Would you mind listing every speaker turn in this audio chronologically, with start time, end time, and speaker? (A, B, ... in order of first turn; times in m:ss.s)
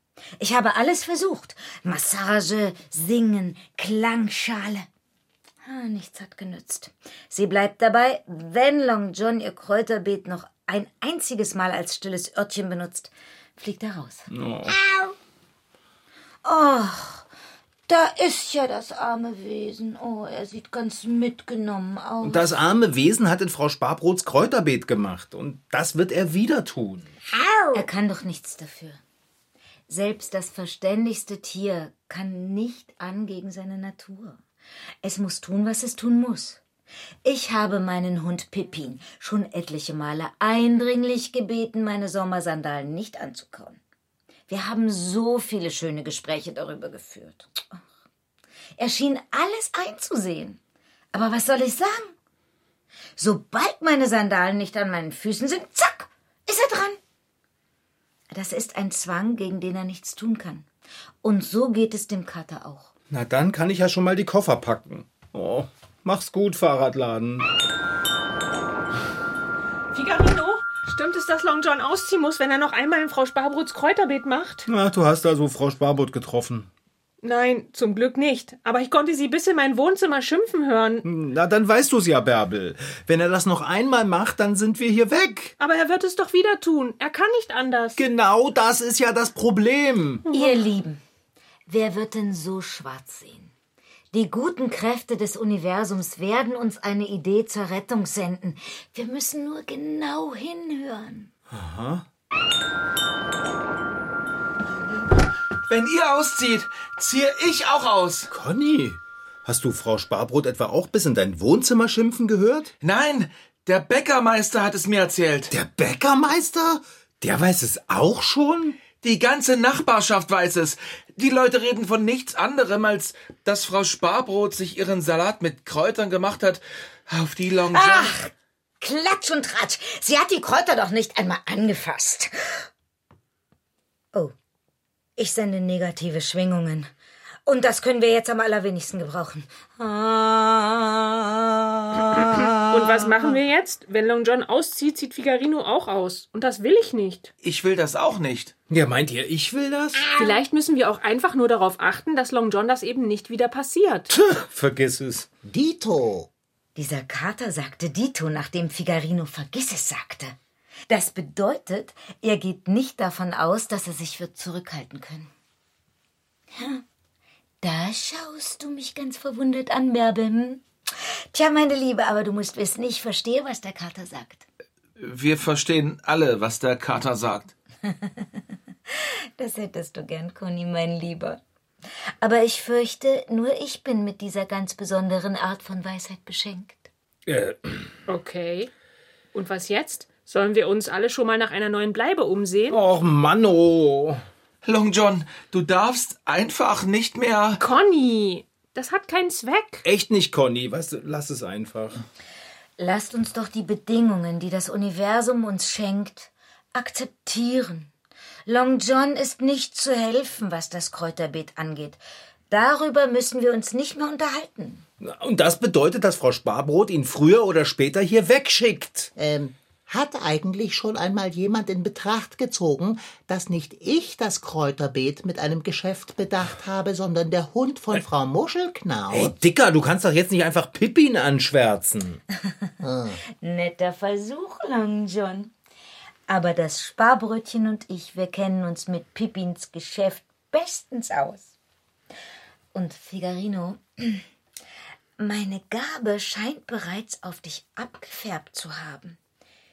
0:00.4-0:04.9 A
0:05.6-0:14.3 A
0:14.3-0:14.8 B
0:16.4-0:17.2 A
0:17.9-0:22.6 A
0:22.2-0:27.1 B
0:27.4-0:27.7 C
0:27.7-0:29.0 A
0:29.9-0:34.4 A
0:35.0-0:36.6 A
0:37.2-0:43.8 A
0:44.5-0:47.8 A
0:48.8-0:50.6 A
0:51.1-0:52.1 A
0:53.2-0:57.0 A
0:58.3-1:00.7 A
1:01.2-1:02.9 A
1:03.1-1:07.5 B
1:09.9-1:14.7 D
1:14.7-1:16.7 B
1:17.2-1:21.0 D
1:21.0-1:25.5 B
1:25.6-1:28.0 D
1:28.0-1:30.2 B
1:30.3-1:30.6 D
1:30.3-1:31.0 A
1:31.7-1:33.5 A
1:34.1-1:41.3 A
1:41.5-1:42.0 B
1:45.7-1:48.3 E
1:48.3-1:52.7 B
1:52.8-1:55.5 E
1:55.5-1:58.8 B
1:59.0-2:08.2 E
2:07.7-2:12.6 A
2:15.2-2:16.9 A
2:17.4-2:23.1 A
2:22.7-2:27.3 D
2:27.4-2:28.5 E
2:28.7-2:30.0 B
2:30.1-2:34.1 D
2:34.1-2:35.3 B
2:35.4-2:36.3 C
2:36.7-2:40.4 A
2:40.9-2:45.3 A
2:46.5-2:46.8 A
2:47.6-2:50.6 A
2:51.3-2:54.4 A
2:55.0-2:57.5 E
2:57.8-3:01.4 A
3:02.2-3:06.9 A
3:07.2-3:07.9 B
3:08.1-3:08.7 D
3:09.3-3:12.8 D
3:12.7-3:14.2 B
3:14.6-3:17.6 E
3:17.6-3:19.8 D
3:19.8-3:22.0 B
3:22.8-3:27.9 A
3:28.4-3:34.8 A
3:35.0-3:39.1 B
3:39.2-3:49.3 C
3:49.1-3:52.2 B
3:52.8-3:53.2 C
3:53.4-3:55.5 A
3:56.3-4:01.5 A
4:02.7-4:04.2 A
4:05.2-4:09.2 A